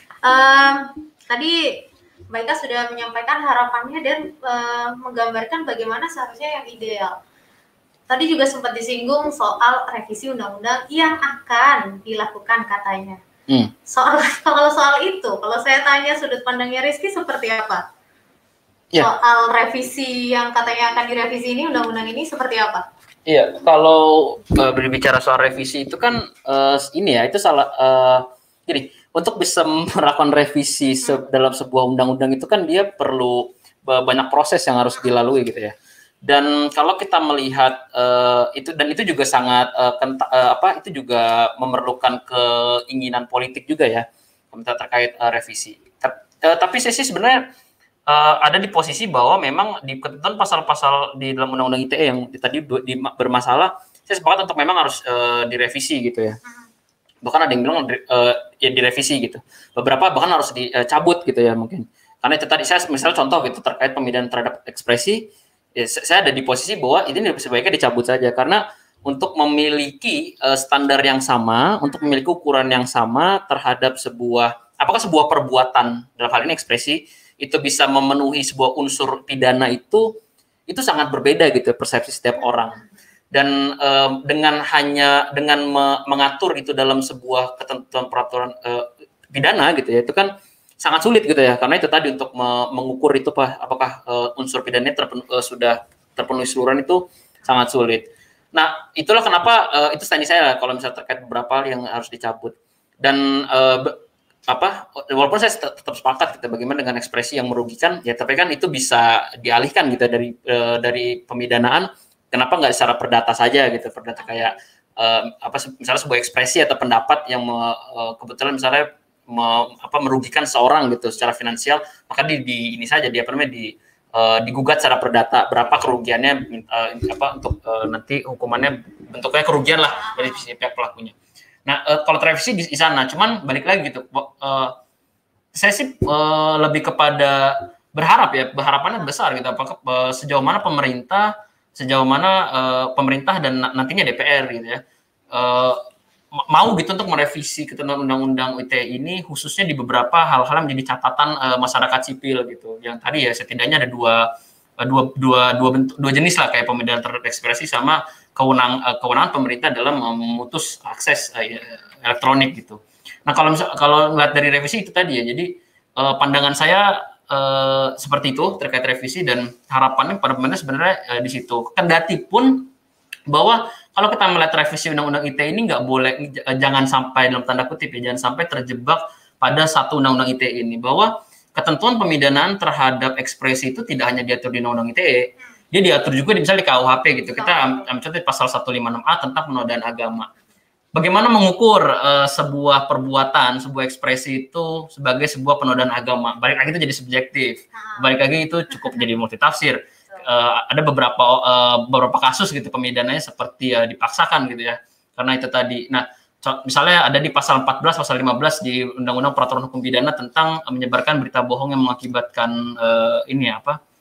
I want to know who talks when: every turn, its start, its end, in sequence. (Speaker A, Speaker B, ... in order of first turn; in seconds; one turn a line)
Speaker A: 0.2-7.2
Speaker A: 8.1-13.2
Speaker A: 13.9-17.8
Speaker A: 19.0-22.8
Speaker B: 23.3-35.7
Speaker B: 36.2-47.4
Speaker B: 48.1-56.4
Speaker B: 57.2-80.0
Speaker A: 71.8-72.2
Speaker B: 80.7-90.3
Speaker B: 90.8-104.0
Speaker B: 104.5-131.1
Speaker A: 114.2-114.5
Speaker A: 130.0-130.4
Speaker B: 131.7-134.7
Speaker B: 135.5-145.8
Speaker B: 146.3-172.7
Speaker B: 173.3-190.3
Speaker A: 187.3-187.9
Speaker B: 190.9-213.8
Speaker A: 197.7-198.1